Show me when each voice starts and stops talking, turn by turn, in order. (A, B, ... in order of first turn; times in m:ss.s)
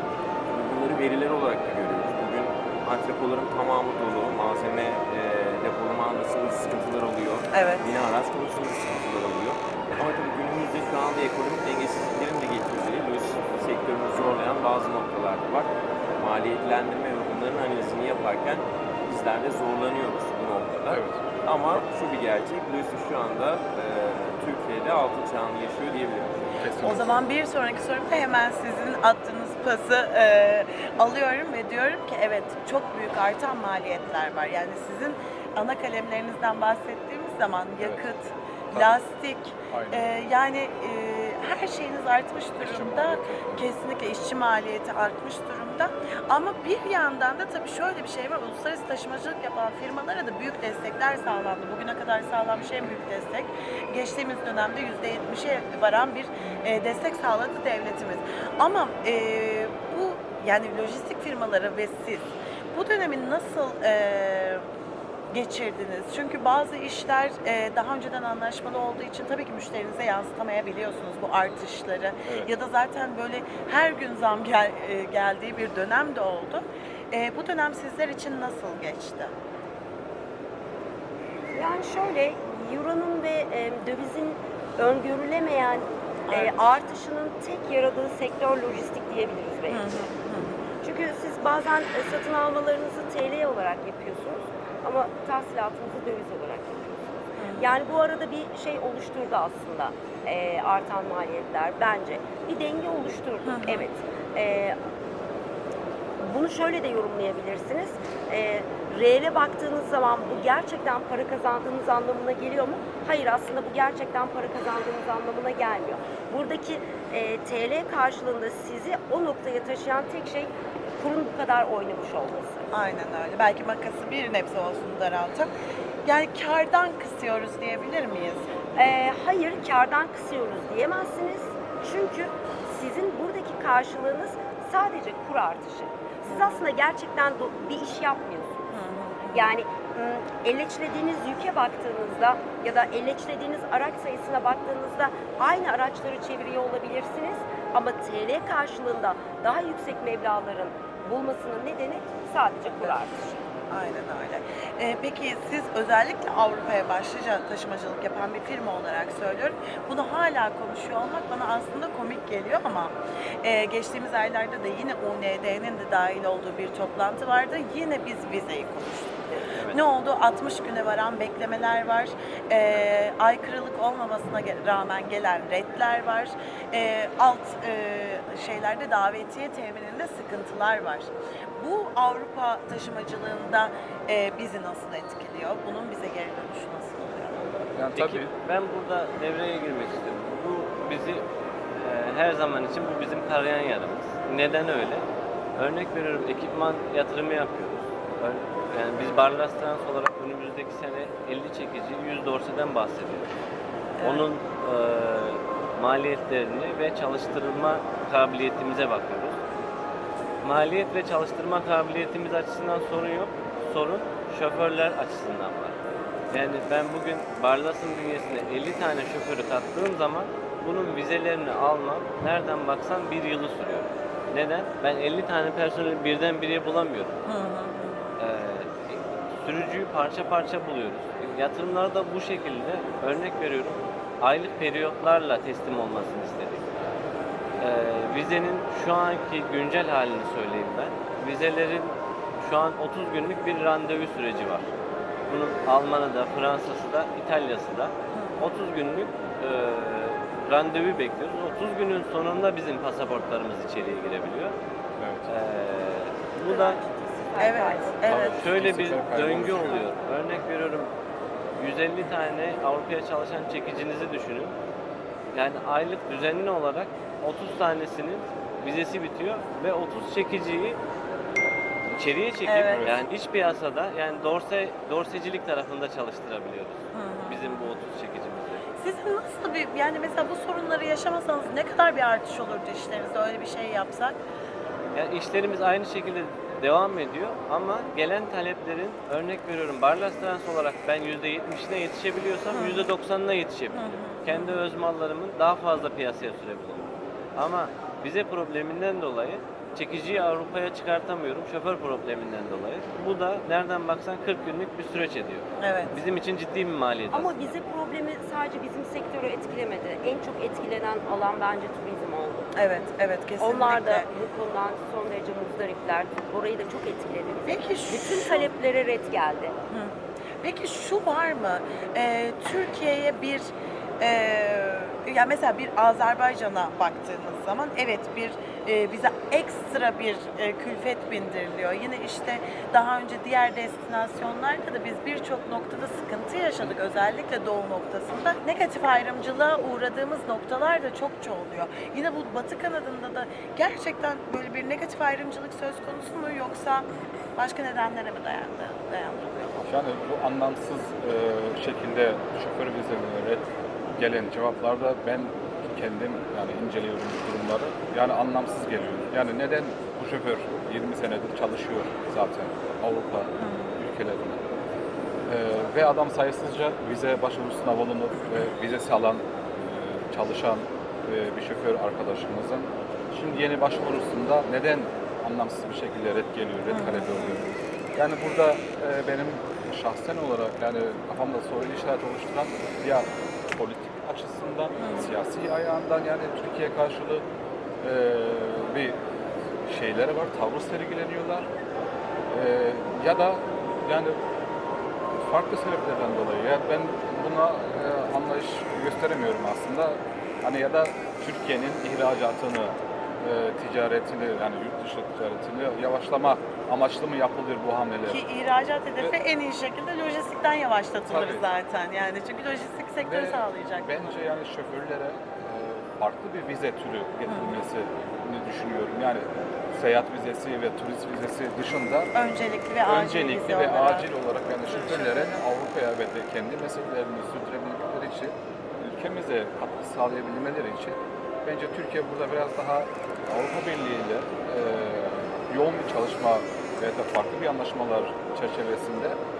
0:00.5-0:26.4 A
0:07.5-0:07.8 B
0:20.9-0:21.2 C
0:26.6-0:27.2 C
0:26.8-1:04.6 B
0:37.8-0:38.1 C
0:38.7-0:39.0 C
0:39.7-0:40.1 C
0:42.6-0:43.7 C
1:05.3-1:19.3 B
1:12.2-1:12.5 C
1:21.5-1:30.1 D
1:26.3-1:26.7 B
1:29.7-1:30.6 B
1:30.8-1:44.8 D
1:37.4-1:37.7 B
1:43.4-1:43.9 B
1:46.2-2:02.7 D
2:02.7-2:05.5 B
2:06.0-2:08.5 B
2:08.8-2:18.7 D
2:16.3-2:16.7 B
2:18.7-2:19.5 B
2:19.3-2:33.5 D
2:33.7-3:07.6 B
3:07.7-3:08.3 C
3:07.9-3:23.3 E
3:24.0-3:24.3 B
3:24.0-3:29.4 E
3:30.4-3:47.2 E
3:47.2-3:48.1 B
3:48.2-3:56.8 E
3:57.6-4:04.7 E
4:05.3-4:14.5 E
4:15.0-4:15.3 C
4:15.3-4:16.8 E
4:16.5-4:18.2 D
4:17.4-4:18.4 B
4:18.0-4:19.8 C
4:18.4-4:20.9 E
4:19.2-4:19.6 D
4:21.6-4:24.6 E
4:25.3-4:30.8 E
4:31.9-4:38.7 E
4:32.5-4:32.9 B
4:32.7-4:33.0 C
4:36.9-4:37.7 B
4:38.8-4:44.2 B
4:44.9-5:07.6 E
4:52.5-4:52.9 B
4:53.7-4:54.6 B
5:05.6-5:05.9 B
5:07.1-5:12.5 D
5:12.6-5:14.1 B
5:13.4-5:19.5 D
5:17.4-5:18.5 B
5:19.7-5:49.6 B
5:49.6-6:04.4 C
6:03.4-6:03.7 B
6:05.2-6:27.2 C
6:16.7-6:17.5 B
6:24.8-6:25.1 B
6:27.8-6:29.0 C
6:29.6-6:31.5 C
6:32.3-6:34.2 C
6:35.1-6:48.2 C
6:48.1-6:54.0 B
6:51.1-6:51.5 C
6:53.0-7:02.1 C
6:57.3-6:57.6 B
7:02.1-7:04.1 B
7:02.8-7:19.2 C
7:04.6-7:05.4 B